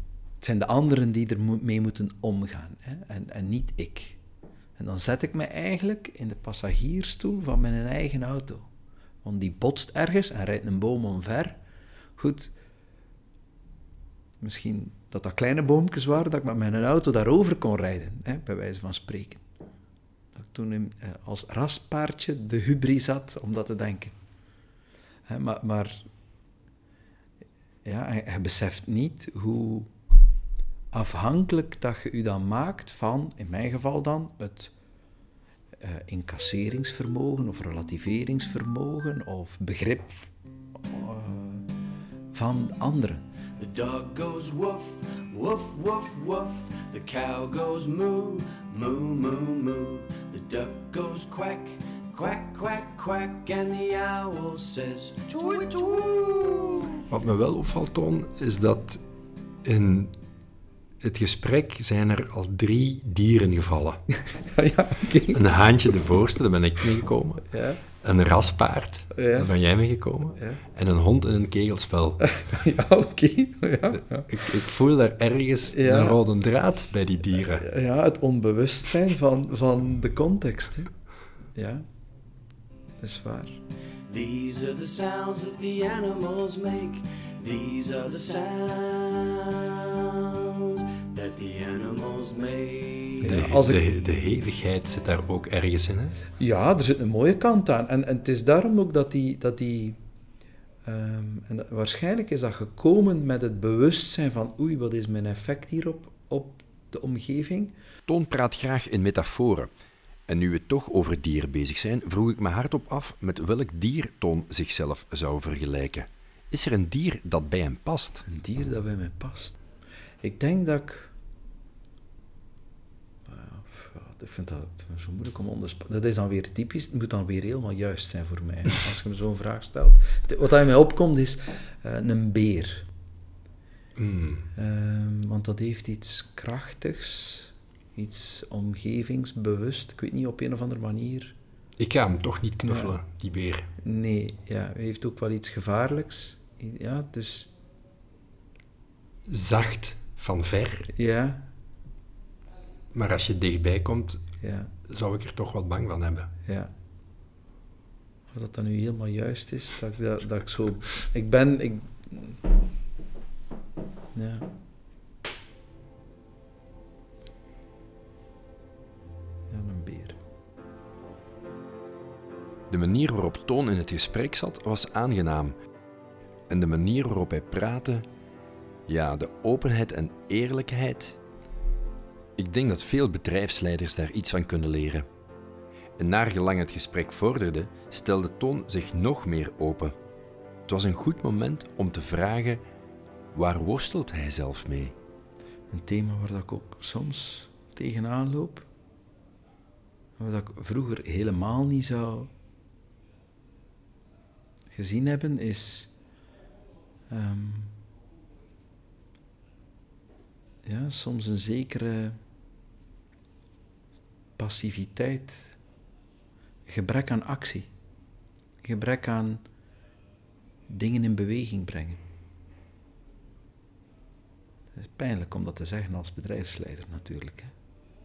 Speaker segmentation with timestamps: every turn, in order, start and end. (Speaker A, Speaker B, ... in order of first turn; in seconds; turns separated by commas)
Speaker A: 0.4-4.2, Speaker A: 4.8-8.7, Speaker A: 9.2-11.6, Speaker A: 12.2-12.5, Speaker A: 14.4-19.4, Speaker A: 20.3-24.1, Speaker A: 25.3-26.1, Speaker A: 27.8-29.9, Speaker A: 30.9-34.7, Speaker A: 35.8-41.7, Speaker A: 42.3-43.2, Speaker B: 43.6-57.0, Speaker C: 57.1-59.0, Speaker C: 59.6-60.1, Speaker C: 61.0-64.0, Speaker A: 64.3-65.7, Speaker C: 65.3-67.4, Speaker A: 67.5-67.8, Speaker C: 68.0-72.2, Speaker A: 69.1-69.5, Speaker A: 70.3-70.6, Speaker A: 72.2-74.4, Speaker C: 74.3-77.7, Speaker A: 75.7-76.2, Speaker A: 77.4-80.9, Speaker A: 81.5-81.8, Speaker A: 83.0-83.6, Speaker B: 84.1-93.3, Speaker C: 93.2-96.2, Speaker A: 93.3-93.9, Speaker A: 96.4-100.0, Speaker A: 100.8-107.8, Speaker D: 108.1-109.7, Speaker D: 110.3-118.2, Speaker A: 118.2-119.6, Speaker A: 120.2-121.1, Speaker A: 123.2-132.8, Speaker C: 133.9-134.5, Speaker A: 134.5-141.3, Speaker C: 141.8-143.7, Speaker A: 142.7-143.0, Speaker A: 143.8-147.5, Speaker C: 149.3-150.9, Speaker A: 150.9-151.5, Speaker C: 152.9-154.2, Speaker A: 154.4-154.7, Speaker C: 154.9-156.3, Speaker A: 156.4-156.7, Speaker A: 158.3-162.4, Speaker A: 164.1-164.5, Speaker A: 169.5-170.2, Speaker C: 172.7-175.3, Speaker D: 175.2-175.5, Speaker D: 176.6-178.1, Speaker C: 176.9-177.3, Speaker D: 178.9-181.2, Speaker C: 182.4-182.8, Speaker D: 182.8-185.1, Speaker D: 186.0-189.9, Speaker C: 186.8-188.9, Speaker C: 190.8-191.9, Speaker D: 191.9-192.6, Speaker D: 193.3-194.9, Speaker A: 195.7-198.7, Speaker A: 200.2-202.3, Speaker A: 204.7-205.9, Speaker A: 207.1-207.8, Speaker A: 210.6-212.2, Speaker A: 214.4-215.6, Speaker A: 216.7-217.7, Speaker A: 218.6-219.4, Speaker A: 220.7-222.0, Speaker A: 224.7-227.5